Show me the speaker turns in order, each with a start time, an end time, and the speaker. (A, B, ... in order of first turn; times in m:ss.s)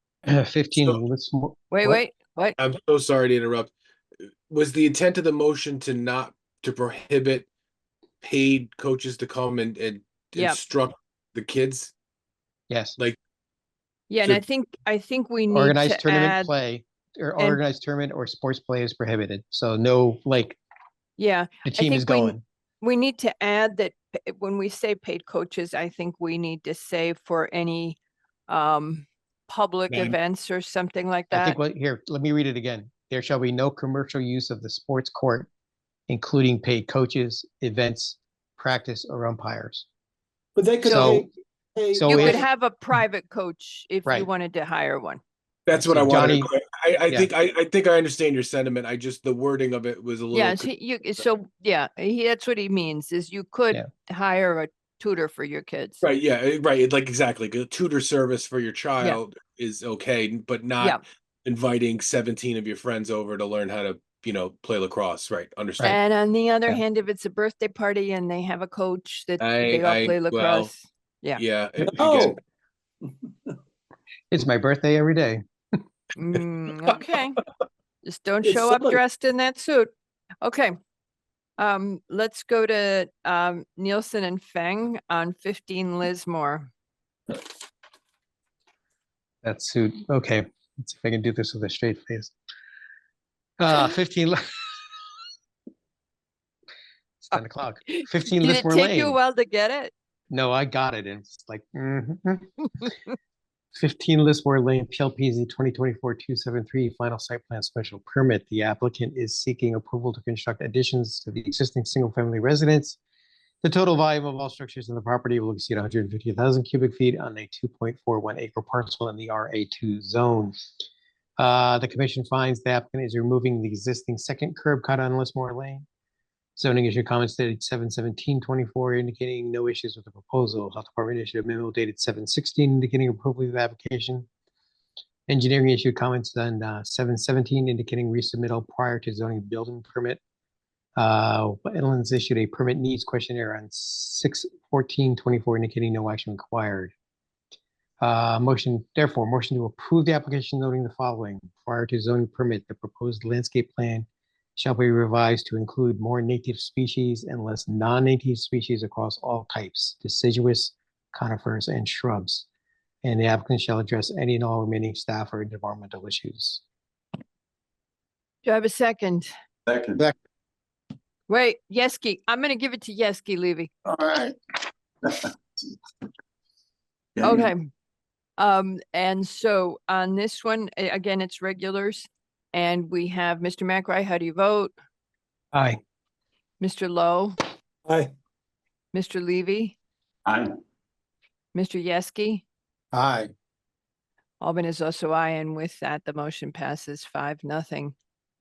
0:00.3-0:02.0 A
0:01.7-0:02.6 B
0:02.6-0:03.7 C
0:04.5-0:07.5 C
0:08.2-0:11.9 C
0:12.7-0:13.0 A
0:14.1-0:16.5 B
0:15.5-0:20.6 A
0:21.2-0:31.6 B
0:21.6-0:22.4 A
0:29.9-0:30.2 A
0:31.3-0:35.5 A
0:36.1-0:39.9 A
0:40.6-0:42.4 D
0:40.8-0:41.2 B
0:40.8-0:41.3 A
0:41.9-0:42.4 A
0:42.1-0:45.2 B
0:45.7-0:50.7 C
0:45.8-0:46.5 A
0:50.3-0:56.0 B
0:56.0-1:06.0 C
1:05.8-1:11.4 B
1:09.4-1:10.7 C
1:11.4-1:12.4 C
1:11.9-1:12.4 D
1:14.3-1:15.4 A
1:16.2-1:17.4 B
1:18.0-1:19.9 B
1:18.5-1:19.0 D
1:20.4-1:20.8 B
1:21.6-1:26.7 B
1:29.4-1:32.3 A
1:33.6-1:35.0 A
1:37.3-1:39.2 A
1:38.0-1:39.9 B
1:40.3-1:42.9 A
1:43.8-1:53.0 A
1:53.6-2:00.6 A
2:01.4-2:05.8 A
2:06.6-2:14.3 A
2:15.3-2:20.2 A
2:21.0-2:26.9 A
2:28.0-2:42.5 A
2:43.0-2:46.6 A
2:48.4-2:49.3 B
2:49.7-2:50.0 D
2:51.3-2:53.7 B
2:53.9-2:54.3 D
2:57.2-2:57.5 D
2:57.2-2:57.7 B
2:58.4-3:04.7 B
3:05.5-3:05.8 A
3:06.6-3:07.4 B
3:08.9-3:09.8 B
3:10.3-3:10.6 D
3:11.5-3:12.4 B
3:13.0-3:13.3 A
3:14.4-3:18.0 B